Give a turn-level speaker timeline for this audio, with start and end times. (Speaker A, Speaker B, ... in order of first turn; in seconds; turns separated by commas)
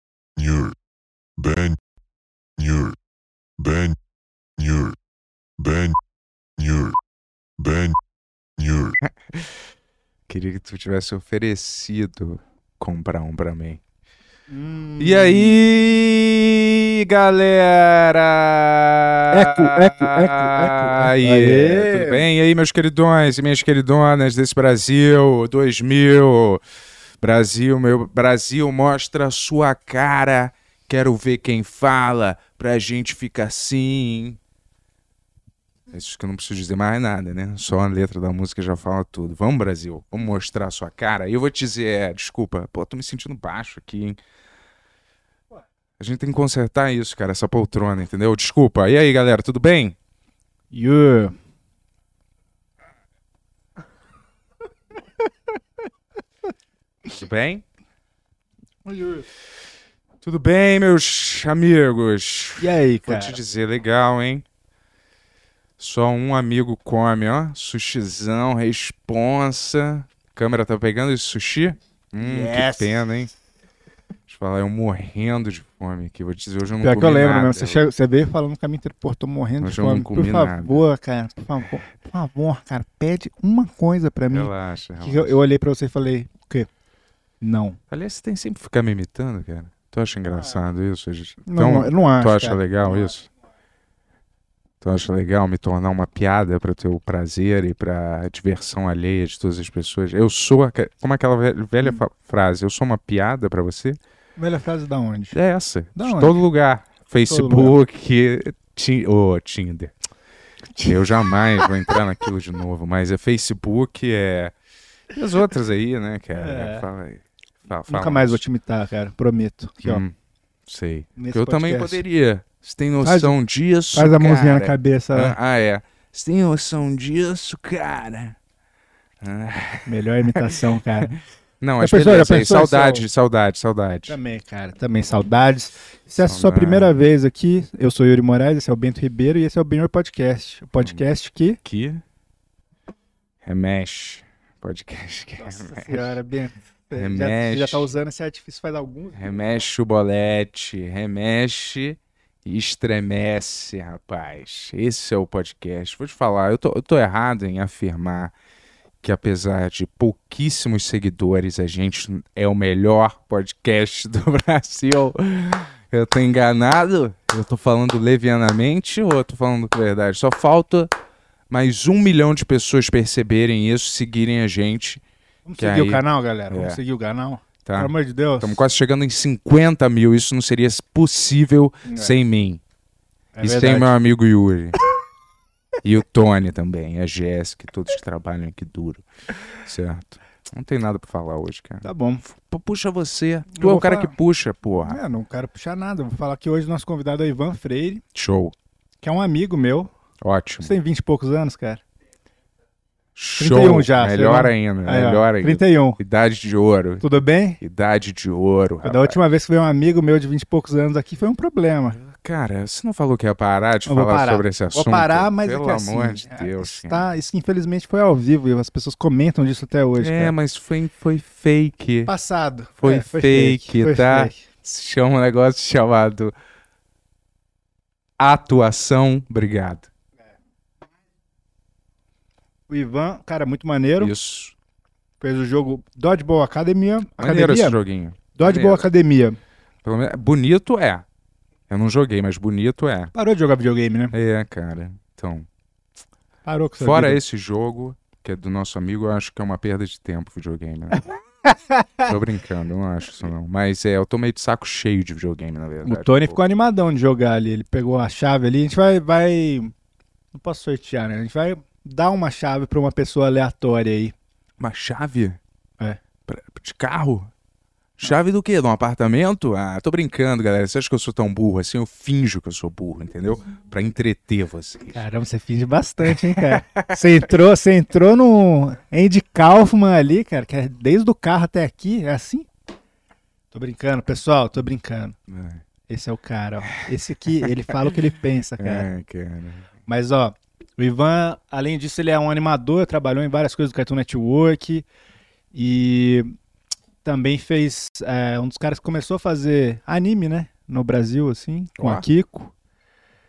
Speaker A: 0.4-0.8, Speaker A: 1.4-1.8, Speaker A: 2.6-3.0, Speaker A: 3.6-4.0, Speaker A: 4.6-5.0, Speaker A: 5.6-6.0, Speaker A: 6.6-7.0, Speaker A: 7.6-8.0, Speaker A: 8.6-9.0, Speaker B: 9.0-9.5, Speaker B: 10.3-13.8, Speaker C: 14.5-15.6, Speaker B: 15.0-26.6, Speaker C: 19.3-22.3, Speaker B: 27.2-34.4, Speaker B: 35.9-44.2, Speaker B: 46.0-50.0, Speaker C: 50.7-51.4, Speaker B: 57.1-57.6, Speaker C: 58.9-59.3, Speaker B: 60.2-64.4, Speaker C: 62.6-63.4, Speaker B: 65.8-73.3, Speaker C: 72.2-73.1, Speaker B: 74.3-77.8, Speaker C: 76.8-86.7, Speaker B: 79.6-80.8, Speaker B: 84.3-85.4, Speaker C: 87.4-87.8, Speaker B: 87.9-93.3, Speaker C: 91.5-93.1, Speaker B: 94.8-104.0, Speaker C: 104.4-105.4, Speaker B: 105.3-109.9, Speaker C: 106.0-106.4, Speaker C: 107.3-107.8, Speaker B: 110.8-114.5, Speaker B: 115.1-118.4, Speaker C: 116.3-116.9, Speaker C: 117.9-120.0, Speaker B: 119.8-120.1, Speaker B: 120.7-128.4, Speaker C: 121.2-122.0, Speaker C: 123.0-123.4, Speaker C: 123.9-125.4, Speaker B: 129.2-129.9, Speaker C: 129.9-131.2, Speaker B: 130.5-131.0, Speaker B: 131.6-134.2, Speaker C: 131.8-133.0, Speaker C: 134.1-141.6, Speaker B: 136.2-136.9, Speaker B: 141.6-142.0, Speaker B: 143.4-146.2, Speaker C: 145.4-149.4, Speaker B: 146.9-147.9, Speaker B: 149.2-158.3, Speaker B: 159.0-170.9, Speaker B: 171.5-175.0, Speaker C: 175.5-178.6, Speaker B: 175.6-176.8, Speaker B: 177.7-182.6, Speaker C: 181.9-182.1, Speaker C: 183.3-183.9, Speaker B: 183.4-184.8, Speaker B: 185.8-195.0, Speaker C: 191.8-192.2, Speaker C: 193.6-194.2, Speaker C: 194.8-198.0, Speaker B: 198.2-198.5, Speaker C: 199.0-199.9, Speaker B: 200.2-200.8, Speaker C: 200.6-201.8, Speaker B: 203.2-207.1, Speaker C: 203.4-206.0, Speaker C: 207.0-207.6, Speaker B: 207.6-209.2, Speaker C: 208.8-212.0, Speaker B: 211.9-217.1, Speaker C: 213.9-220.3, Speaker B: 220.0-222.1, Speaker C: 222.1-224.4, Speaker B: 222.8-226.3, Speaker B: 228.2-229.9, Speaker C: 232.7-234.1, Speaker B: 234.0-234.6, Speaker C: 235.2-237.8, Speaker B: 237.2-238.9, Speaker C: 238.3-239.4, Speaker B: 239.8-241.0, Speaker B: 241.7-243.1, Speaker C: 243.1-244.2, Speaker B: 244.1-245.5, Speaker C: 246.4-247.2, Speaker B: 246.8-251.1, Speaker C: 251.4-252.2, Speaker B: 252.1-256.4, Speaker C: 255.8-259.7, Speaker C: 260.3-264.1, Speaker B: 264.6-265.4, Speaker B: 266.3-267.3, Speaker B: 268.0-275.0, Speaker C: 274.9-282.5, Speaker B: 276.1-277.0, Speaker C: 283.5-285.2, Speaker B: 285.3-285.6, Speaker C: 285.9-288.9, Speaker B: 288.6-289.7, Speaker C: 289.9-294.9, Speaker C: 295.5-296.3, Speaker C: 297.0-302.5, Speaker B: 301.8-302.1